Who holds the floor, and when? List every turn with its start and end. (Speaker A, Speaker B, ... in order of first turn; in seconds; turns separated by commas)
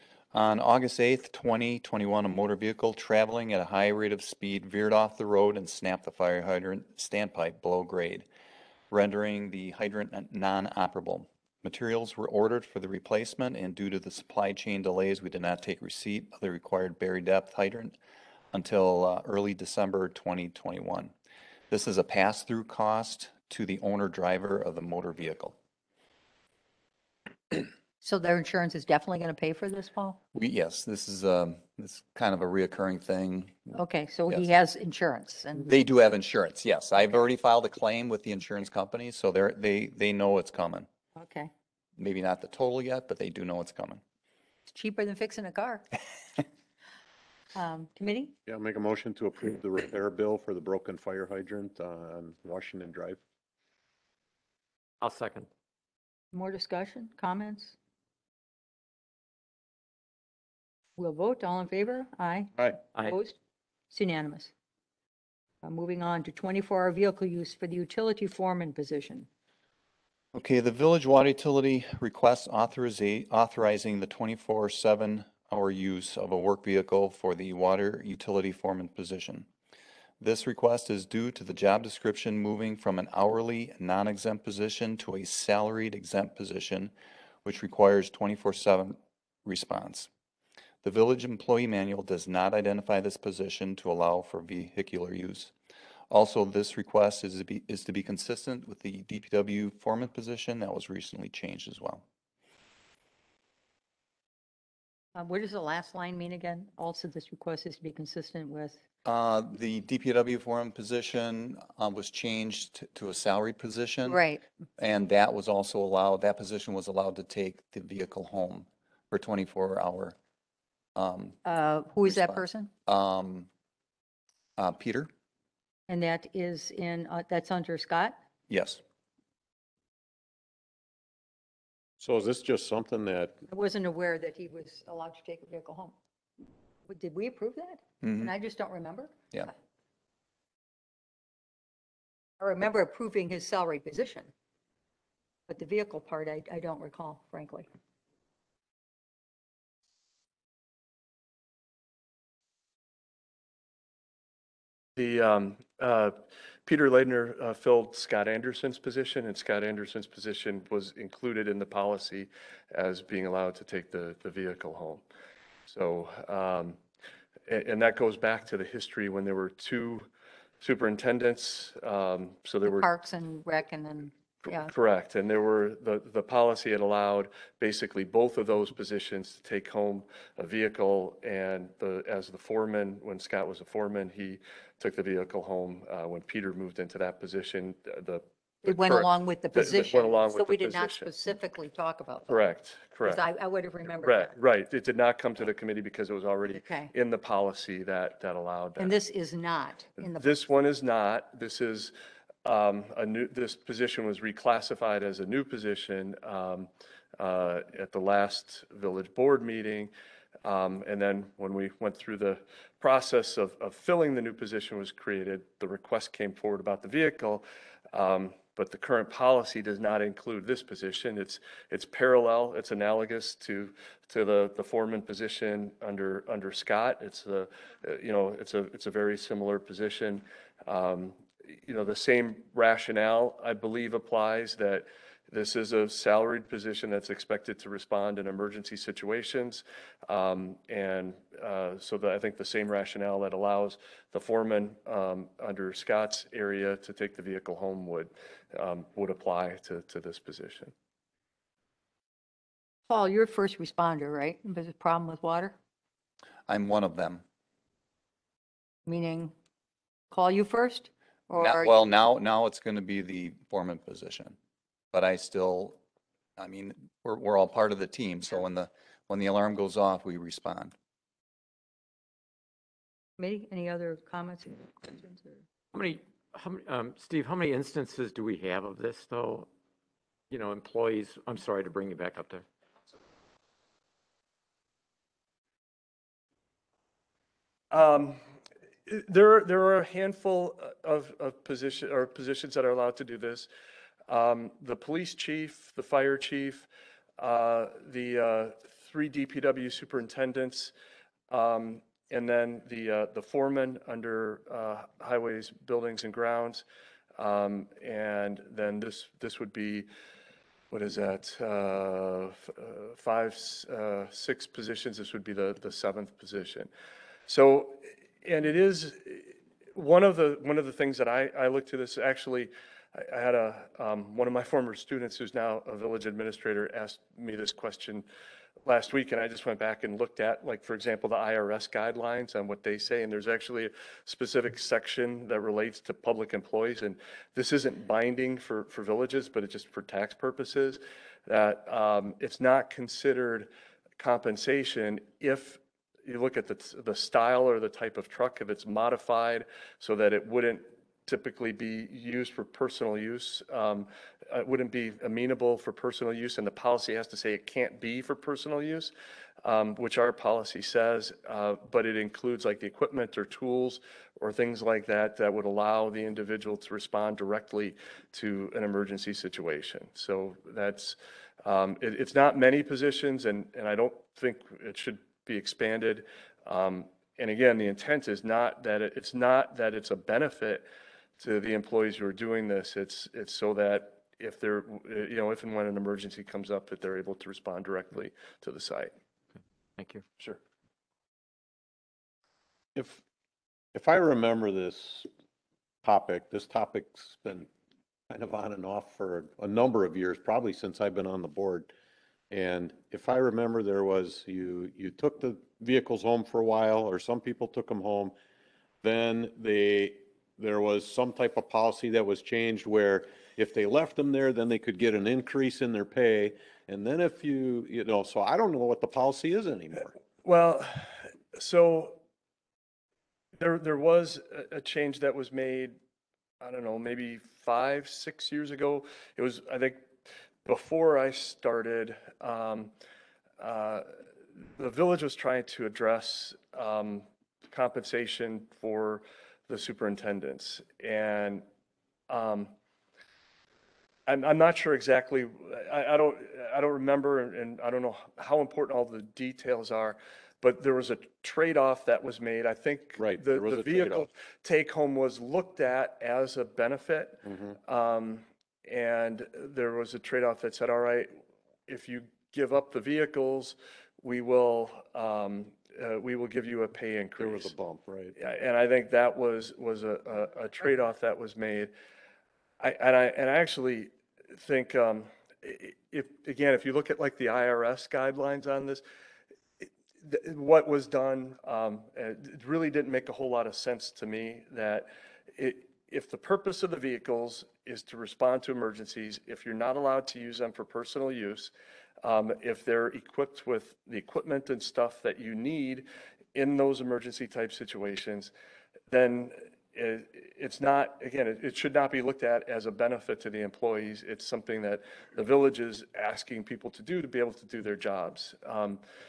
Speaker A: 0.3-8.3, Speaker A: 8.9-18.0, Speaker A: 18.5-21.1, Speaker A: 21.7-25.6, Speaker B: 28.0-30.2, Speaker A: 30.3-33.8, Speaker B: 33.7-35.7, Speaker A: 35.7-40.9, Speaker B: 41.2-41.5, Speaker A: 42.0-44.0, Speaker B: 44.7-45.9, Speaker B: 47.5-48.3, Speaker C: 48.5-53.2, Speaker D: 55.0-55.5, Speaker B: 56.3-57.8, Speaker B: 61.0-63.4, Speaker B: 63.9-64.5, Speaker B: 65.6-69.3, Speaker A: 70.3-79.5, Speaker A: 80.2-86.9, Speaker A: 87.4-90.1, Speaker A: 90.8-95.5, Speaker A: 96.1-102.0, Speaker B: 105.2-108.8, Speaker A: 109.0-114.2, Speaker B: 114.1-114.4, Speaker A: 114.8-120.2, Speaker A: 121.0-121.4, Speaker B: 121.5-122.7, Speaker A: 122.0-123.5, Speaker A: 124.6-125.1, Speaker B: 125.9-128.2, Speaker A: 128.5-128.8, Speaker C: 132.0-133.4, Speaker B: 133.5-135.9, Speaker B: 136.9-139.5, Speaker A: 138.0-138.3, Speaker B: 142.4-144.3, Speaker B: 145.5-147.7, Speaker E: 155.0-165.1, Speaker E: 165.7-166.8, Speaker E: 167.5-170.1, Speaker E: 170.6-172.9, Speaker B: 172.7-174.7, Speaker E: 174.5-191.1, Speaker B: 188.7-192.4, Speaker E: 192.3-193.2, Speaker B: 193.0-194.3, Speaker E: 194.0-199.0, Speaker B: 196.5-196.9, Speaker B: 198.8-200.3, Speaker E: 200.0-201.9, Speaker E: 202.4-209.9, Speaker E: 210.4-250.7, Speaker B: 252.9-255.6, Speaker A: 256.5-257.2, Speaker B: 258.9-259.3, Speaker B: 260.1-261.9, Speaker A: 261.4-264.4, Speaker A: 264.9-265.8, Speaker A: 266.4-270.7, Speaker B: 273.2-275.4, Speaker D: 275.7-279.5, Speaker D: 280.3-282.4, Speaker E: 287.7-288.2, Speaker E: 288.9-293.5, Speaker E: 294.1-296.7, Speaker E: 297.2-300.7, Speaker E: 301.3-306.6, Speaker E: 307.2-309.9, Speaker E: 310.7-316.7, Speaker E: 317.3-328.1, Speaker E: 328.6-358.9, Speaker E: 359.4-380.7, Speaker E: 381.2-388.9, Speaker D: 389.8-390.0, Speaker C: 392.8-393.0, Speaker C: 393.7-395.1, Speaker C: 395.8-397.5, Speaker C: 398.1-401.7, Speaker C: 402.3-408.1, Speaker C: 408.8-420.0, Speaker E: 420.2-422.0, Speaker E: 423.4-425.8, Speaker E: 426.4-429.9, Speaker E: 430.4-432.7, Speaker E: 433.4-434.0, Speaker E: 434.6-441.4, Speaker E: 442.1-442.5, Speaker E: 444.1-467.5, Speaker C: 453.0-454.1, Speaker C: 457.2-457.6, Speaker C: 467.2-468.2, Speaker E: 468.2-471.7, Speaker E: 472.6-478.8, Speaker E: 480.0-498.3, Speaker E: 498.9-508.8